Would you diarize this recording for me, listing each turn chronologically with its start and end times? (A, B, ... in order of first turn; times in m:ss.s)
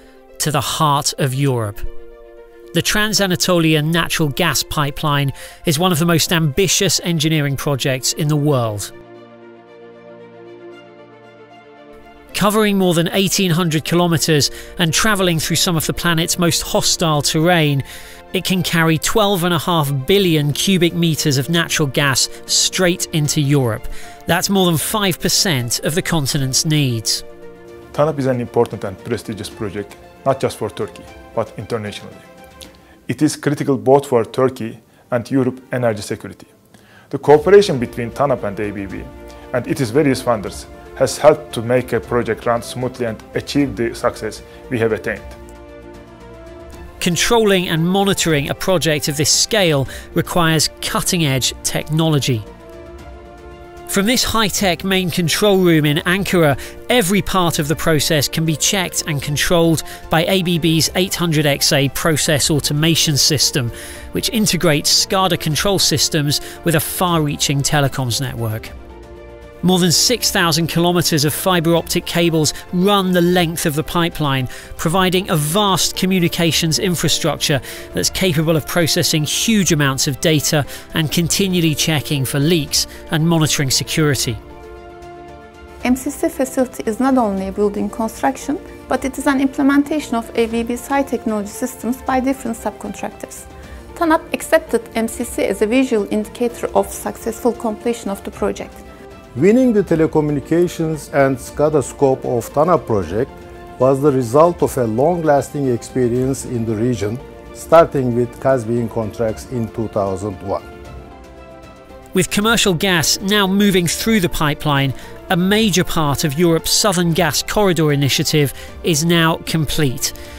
0:00.4-0:01.8 A
0:02.7-0:08.9 A
0:12.3-0:27.2 A
0:27.9-0:32.2 B
0:33.1-0:36.5 B
0:37.1-0:45.3 B
0:47.0-0:52.4 A
0:53.9-1:08.7 A
1:09.6-1:24.4 A
1:25.8-1:38.8 C
1:39.3-1:50.6 D
1:52.1-2:00.1 A